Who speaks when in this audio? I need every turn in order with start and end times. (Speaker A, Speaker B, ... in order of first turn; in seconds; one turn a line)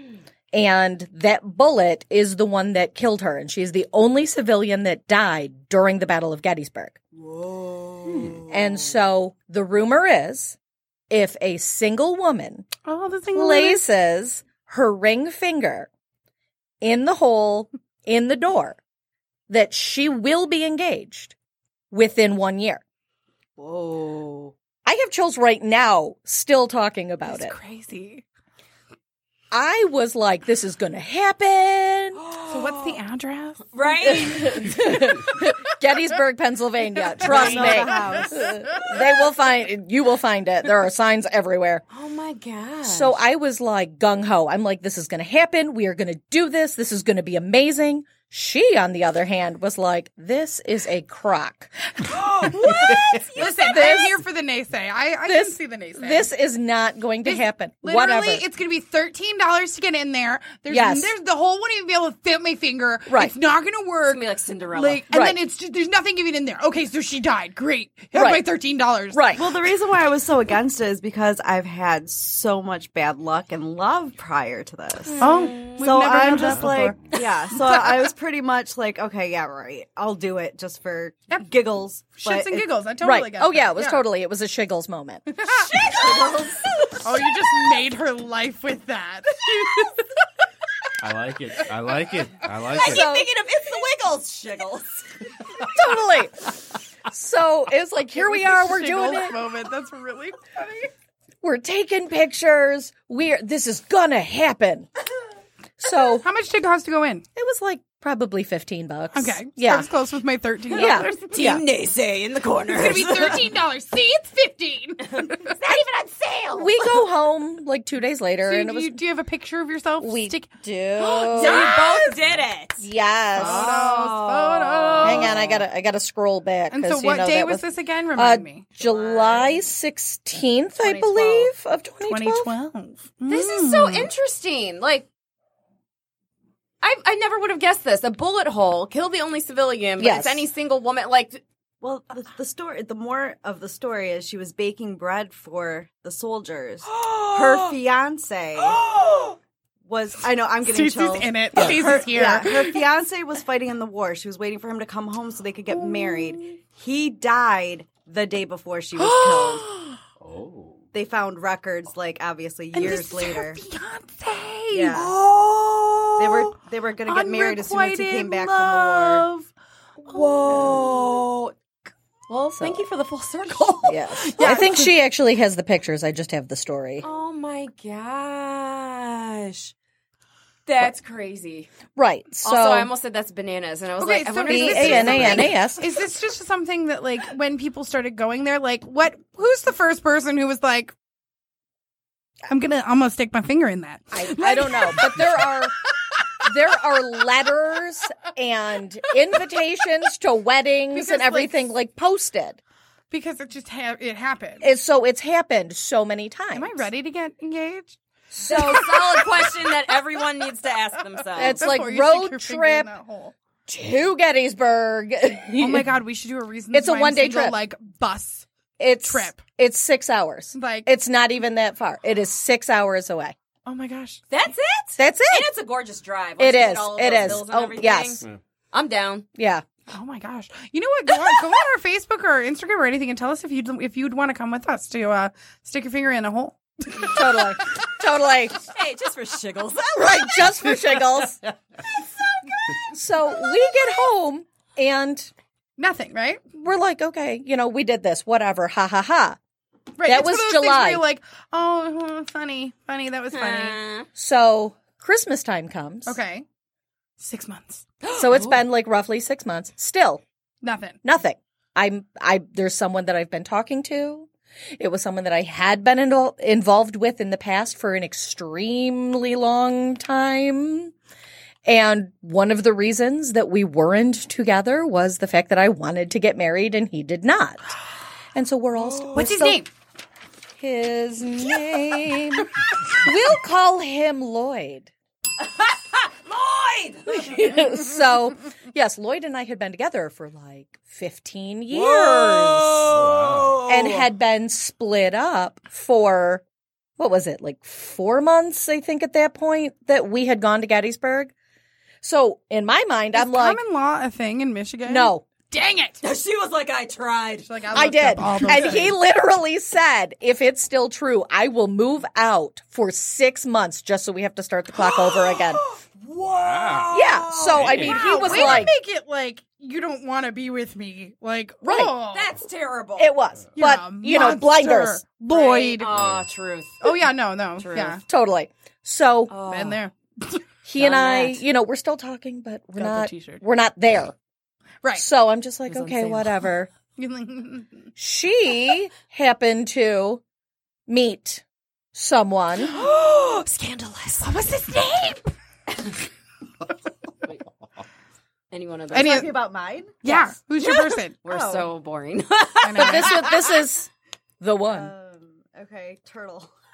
Speaker A: 0.5-7.0
Speaker B: 7.3-8.4
Speaker A: 8.5-10.6
Speaker A: 11.1-12.7
Speaker C: 12.9-13.8
Speaker A: 13.3-15.9
Speaker A: 16.8-18.8
Speaker A: 19.5-21.4
Speaker A: 21.9-22.8
Speaker B: 23.6-24.5
Speaker A: 24.9-27.6
Speaker C: 27.3-28.2
Speaker A: 29.5-32.2
Speaker B: 32.1-33.0
Speaker C: 32.5-33.7
Speaker B: 33.7-34.8
Speaker A: 34.1-41.8
Speaker B: 37.2-38.0
Speaker D: 37.2-38.4
Speaker B: 41.9-43.2
Speaker A: 42.9-52.1
Speaker C: 52.1-56.3
Speaker B: 52.5-53.7
Speaker A: 53.4-54.2
Speaker A: 55.3-58.4
Speaker C: 57.2-69.2
Speaker A: 60.7-61.1
Speaker A: 63.1-63.3
Speaker B: 64.1-65.0
Speaker A: 65.1-65.4
Speaker A: 68.1-68.5
Speaker A: 69.1-69.5
Speaker D: 69.4-82.7
Speaker B: 75.1-75.9
Speaker C: 75.2-78.1
Speaker C: 82.2-84.0
Speaker A: 83.0-85.3
Speaker C: 85.3-86.2
Speaker B: 85.5-87.0
Speaker C: 87.0-90.1
Speaker E: 91.0-93.0
Speaker B: 92.7-95.3
Speaker A: 92.8-93.3
Speaker A: 95.6-99.4
Speaker C: 98.1-100.9
Speaker A: 101.4-104.9
Speaker A: 105.8-106.3
Speaker C: 106.0-107.2
Speaker A: 107.4-109.9
Speaker C: 109.1-111.3
Speaker A: 110.7-111.6
Speaker B: 111.2-113.4
Speaker C: 112.7-115.5
Speaker B: 115.2-117.0
Speaker A: 116.6-119.0
Speaker C: 118.5-120.5
Speaker A: 120.0-121.8
Speaker B: 121.0-125.6
Speaker C: 121.3-122.1
Speaker A: 122.8-123.7
Speaker C: 123.3-125.4
Speaker A: 125.0-132.5
Speaker C: 126.7-128.7
Speaker B: 128.8-129.6
Speaker B: 130.8-131.5
Speaker C: 132.1-134.1
Speaker B: 133.3-135.1
Speaker B: 136.8-141.4
Speaker A: 140.0-140.5
Speaker D: 141.8-148.8
Speaker B: 147.0-147.7
Speaker C: 148.7-149.4
Speaker D: 149.9-159.7
Speaker C: 150.6-152.8
Speaker C: 155.7-156.4
Speaker C: 159.0-160.0
Speaker E: 160.2-160.8
Speaker D: 160.9-163.6
Speaker C: 162.7-169.5
Speaker D: 164.7-165.2
Speaker D: 166.2-169.3
Speaker B: 170.0-171.5
Speaker C: 170.1-170.9
Speaker B: 172.3-174.8
Speaker A: 172.5-172.8
Speaker A: 173.8-177.1
Speaker C: 174.4-174.9
Speaker B: 177.0-179.7
Speaker B: 180.7-181.7
Speaker A: 181.9-182.9
Speaker B: 182.4-185.6
Speaker C: 184.0-190.9
Speaker A: 184.5-185.9
Speaker C: 192.5-195.4
Speaker A: 194.1-195.8
Speaker A: 196.4-202.6
Speaker C: 200.9-201.6
Speaker C: 203.1-204.7
Speaker A: 204.6-206.9
Speaker C: 206.5-208.0
Speaker A: 208.3-209.2
Speaker B: 208.4-211.6
Speaker C: 208.5-209.2
Speaker A: 211.4-212.9
Speaker C: 211.4-213.3
Speaker A: 213.7-215.9
Speaker C: 215.6-218.5
Speaker A: 216.7-217.6
Speaker A: 218.8-223.3
Speaker C: 219.0-219.4
Speaker C: 220.5-220.9
Speaker C: 223.7-224.2
Speaker B: 224.3-229.2
Speaker A: 225.0-225.5
Speaker A: 226.4-228.2
Speaker A: 229.4-229.7
Speaker C: 229.9-237.5
Speaker A: 237.1-238.6
Speaker B: 238.7-241.0
Speaker A: 239.9-241.4
Speaker A: 242.9-245.3
Speaker C: 245.8-246.4
Speaker A: 246.6-249.4
Speaker C: 250.0-253.8
Speaker A: 250.1-251.0
Speaker B: 253.3-254.1
Speaker A: 254.2-256.2
Speaker C: 256.1-256.4
Speaker C: 257.2-257.9
Speaker B: 258.0-258.6
Speaker A: 258.1-260.2
Speaker C: 260.6-261.0
Speaker A: 261.0-270.9
Speaker A: 271.7-277.6
Speaker A: 278.3-279.6
Speaker C: 279.1-279.7
Speaker A: 280.6-284.9
Speaker B: 285.4-287.6
Speaker A: 287.1-293.0
Speaker B: 291.7-294.1
Speaker E: 292.9-293.6
Speaker A: 293.7-296.4
Speaker A: 297.0-301.3
Speaker A: 302.0-303.6
Speaker C: 303.1-306.0
Speaker A: 304.9-305.3
Speaker B: 306.0-307.5
Speaker C: 307.5-309.0
Speaker A: 307.7-315.6
Speaker B: 314.8-318.4
Speaker E: 316.3-317.0
Speaker A: 316.9-318.8
Speaker E: 317.5-318.0
Speaker C: 317.8-322.3
Speaker A: 321.6-321.9
Speaker B: 322.1-323.1
Speaker A: 323.0-325.0
Speaker C: 323.6-325.9
Speaker B: 325.3-326.9
Speaker E: 325.9-326.2
Speaker C: 326.8-328.0
Speaker B: 327.6-328.0
Speaker A: 328.1-329.4
Speaker B: 329.3-329.8
Speaker C: 329.5-330.4
Speaker A: 330.6-334.1
Speaker B: 330.8-331.4
Speaker C: 332.8-333.4
Speaker A: 335.0-336.7
Speaker B: 335.7-336.4
Speaker C: 337.0-337.7
Speaker A: 338.0-340.2
Speaker A: 340.9-341.4
Speaker A: 341.9-342.8
Speaker B: 342.7-344.3
Speaker C: 344.2-345.3
Speaker B: 348.5-349.3
Speaker C: 348.9-349.3
Speaker D: 348.9-350.0
Speaker C: 350.0-351.2
Speaker B: 350.1-353.4
Speaker D: 351.3-351.7
Speaker C: 352.6-353.2
Speaker A: 352.8-354.9
Speaker D: 354.6-356.5